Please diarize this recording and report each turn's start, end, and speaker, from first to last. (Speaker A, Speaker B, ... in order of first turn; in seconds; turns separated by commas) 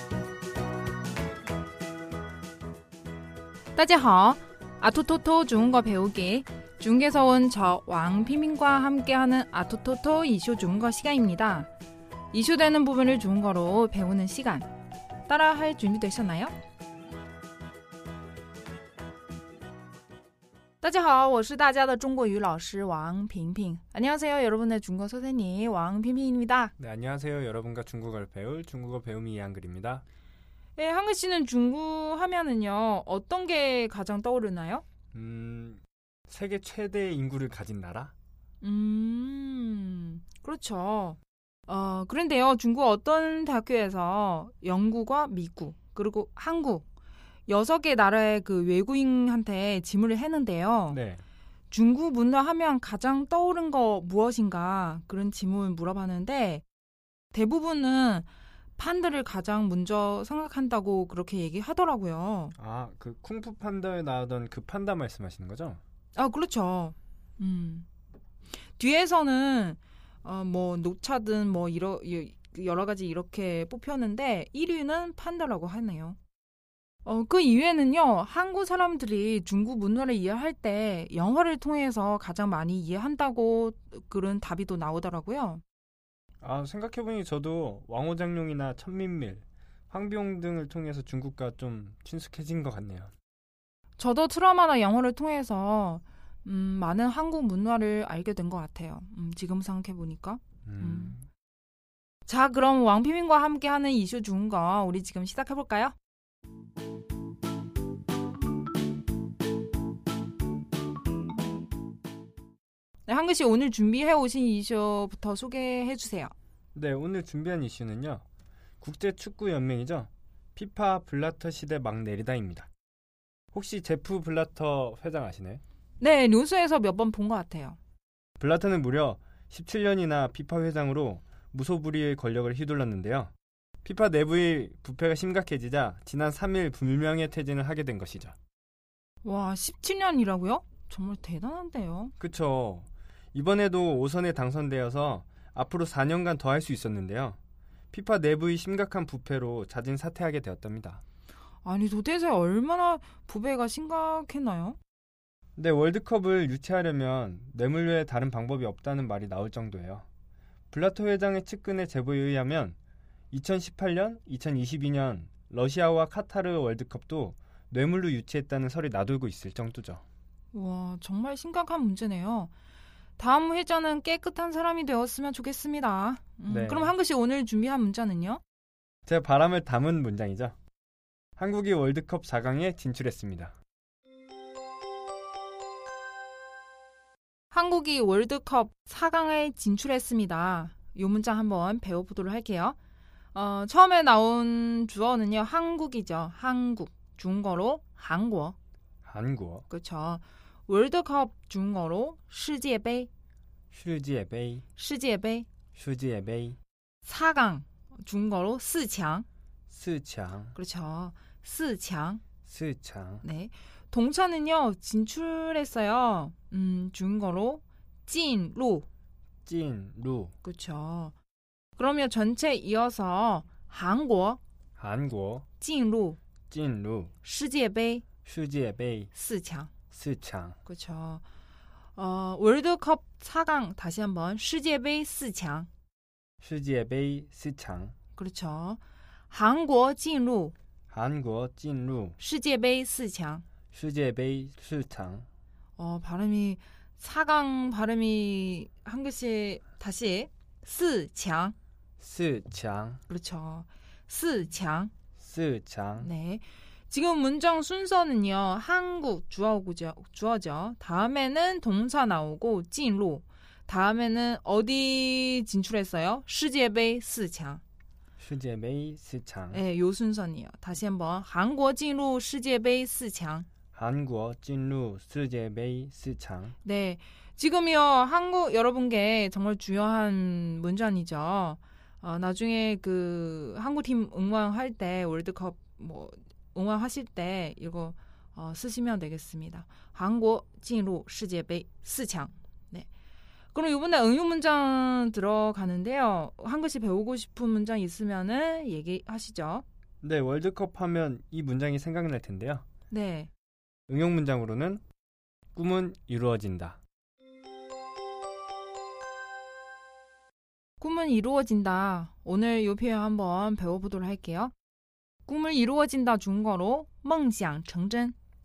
Speaker A: 3.8-11.7, Speaker A: 12.3-14.7, Speaker A: 15.2-16.5, Speaker A: 20.8-26.7, Speaker B: 26.8-30.0, Speaker A: 30.8-34.8, Speaker B: 35.1-38.1, Speaker A: 38.6-46.9, Speaker A: 47.5-51.0, Speaker B: 50.9-51.2, Speaker A: 51.7-56.6, Speaker A: 57.3-58.2, Speaker A: 58.8-62.5, Speaker B: 62.6-65.8, Speaker A: 66.1-67.8, Speaker A: 68.8-76.2, Speaker A: 77.0-85.6, Speaker B: 86.4-93.1, Speaker A: 94.0-101.1, Speaker B: 100.7-101.2, Speaker A: 102.3-105.9, Speaker A: 113.1-116.3, Speaker B: 116.7-118.2, Speaker B: 118.8-122.7, Speaker B: 123.5-125.6, Speaker A: 126.0-127.8, Speaker B: 128.4-133.3, Speaker B: 133.8-138.3, Speaker A: 139.2-142.1, Speaker B: 142.2-147.4, Speaker B: 147.9-151.0, Speaker A: 151.6-154.8, Speaker B: 155.6-160.1, Speaker B: 160.7-162.8, Speaker B: 163.3-170.0, Speaker A: 170.5-172.5, Speaker A: 173.2-178.4, Speaker B: 176.5-176.9, Speaker B: 179.1-180.5, Speaker B: 181.4-183.5, Speaker A: 187.5-192.8, Speaker A: 193.3-198.6, Speaker B: 199.0-199.7, Speaker A: 199.7-203.1, Speaker B: 203.7-204.6, Speaker A: 204.8-205.5, Speaker B: 205.7-206.6, Speaker A: 207.0-209.2, Speaker B: 209.7-210.6, Speaker A: 210.5-212.2, Speaker B: 212.4-213.2, Speaker A: 213.2-218.9, Speaker B: 219.4-220.3, Speaker A: 220.4-221.1, Speaker A: 221.8-224.4, Speaker B: 224.8-225.4, Speaker A: 225.6-226.2, Speaker B: 226.5-227.1, Speaker A: 227.2-228.0, Speaker B: 228.2-229.1, Speaker A: 229.1-229.7, Speaker B: 229.9-230.6, Speaker A: 230.7-231.2, Speaker A: 231.9-235.7, Speaker B: 236.4-237.9, Speaker A: 238.1-240.5, Speaker B: 240.9-242.2, Speaker A: 242.2-243.4, Speaker B: 243.7-245.3, Speaker A: 245.8-251.5, Speaker B: 252.0-253.0, Speaker A: 253.1-254.9, Speaker B: 255.2-256.1, Speaker A: 256.0-267.6, Speaker B: 268.2-269.6, Speaker A: 269.5-273.5, Speaker B: 273.7-276.6, Speaker A: 276.6-292.9, Speaker A: 293.5-299.6, Speaker B: 300.0-302.6, Speaker A: 302.9-303.3, Speaker B: 303.9-304.8, Speaker B: 305.5-306.8, Speaker A: 310.8-314.5, Speaker A: 315.2-318.1